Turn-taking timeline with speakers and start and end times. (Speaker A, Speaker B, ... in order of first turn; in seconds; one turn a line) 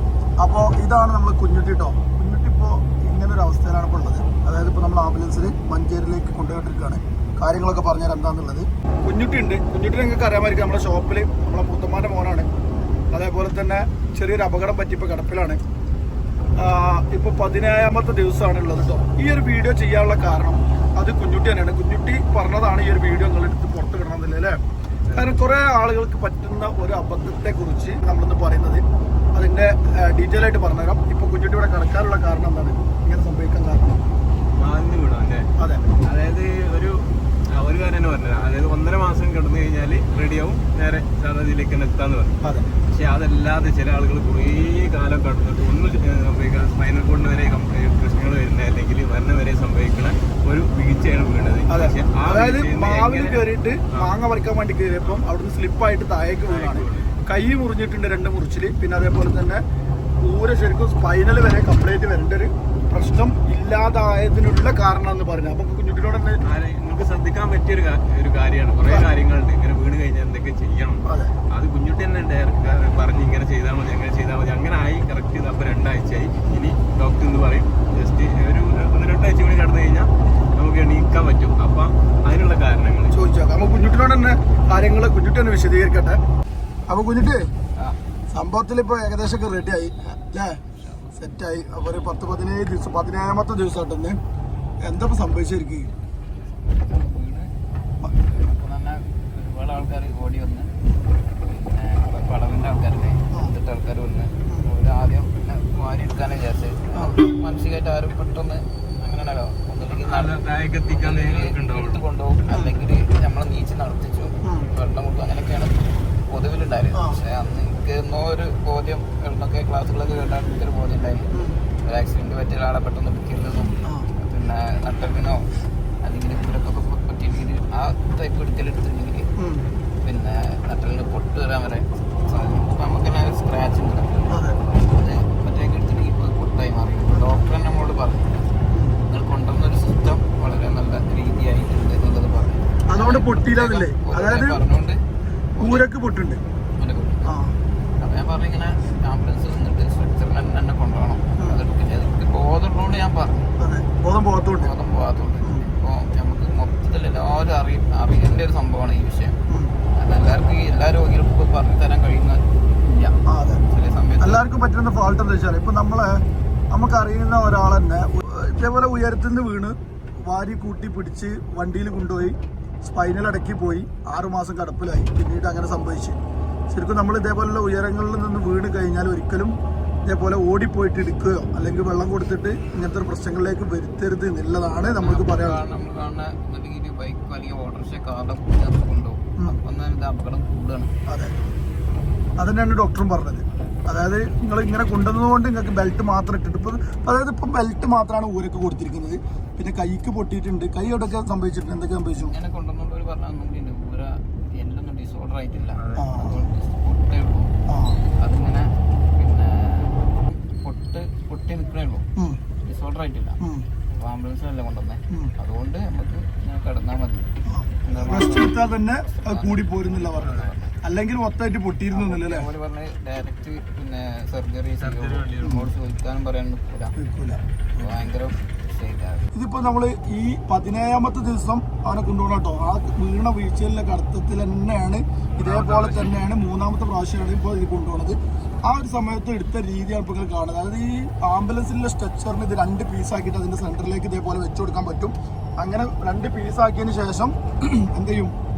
Speaker A: 0.4-12.5
Speaker A: 13.1-15.6
Speaker A: 16.6-24.6
Speaker B: 25.1-25.4
Speaker A: 25.1-28.8
Speaker A: 29.4-34.0
Speaker B: 34.6-35.5
Speaker A: 35.6-35.9
Speaker B: 36.0-54.2
Speaker A: 51.7-59.6
Speaker B: 56.5-57.1
Speaker A: 60.2-66.4
Speaker B: 66.4-83.2
Speaker A: 71.0-71.3
Speaker A: 83.1-86.2
Speaker A: 86.9-87.5
Speaker A: 88.3-90.6
Speaker A: 91.2-94.2
Speaker A: 94.8-95.9
Speaker C: 96.7-97.5
Speaker C: 98.1-100.7
Speaker C: 101.4-121.3
Speaker B: 109.9-112.0
Speaker A: 116.9-117.2
Speaker C: 121.8-125.4
Speaker C: 126.0-129.3
Speaker A: 129.4-129.7
Speaker C: 130.0-138.3
Speaker A: 134.3-134.6
Speaker A: 138.7-139.0
Speaker C: 139.1-145.0
Speaker A: 142.9-144.6
Speaker A: 145.6-146.4
Speaker C: 145.6-145.9
Speaker C: 146.8-147.3
Speaker A: 147.3-147.5
Speaker C: 148.0-153.5
Speaker A: 153.6-154.7
Speaker C: 154.4-159.4
Speaker A: 159.5-159.7
Speaker C: 160.0-164.5
Speaker A: 163.3-163.6
Speaker A: 164.2-176.2
Speaker A: 176.7-185.6
Speaker C: 185.0-190.9
Speaker A: 191.1-191.3
Speaker A: 192.4-202.4
Speaker C: 202.2-207.5
Speaker B: 205.8-206.1
Speaker A: 205.9-206.4
Speaker A: 207.7-208.0
Speaker C: 208.2-208.7
Speaker C: 209.2-212.1
Speaker C: 212.6-213.4
Speaker A: 213.4-213.7
Speaker C: 213.9-220.8
Speaker A: 217.5-222.5
Speaker B: 220.2-220.5
Speaker C: 221.9-226.9
Speaker B: 224.8-225.7
Speaker A: 227.0-227.4
Speaker C: 227.8-229.2
Speaker A: 229.3-248.3
Speaker B: 235.4-236.2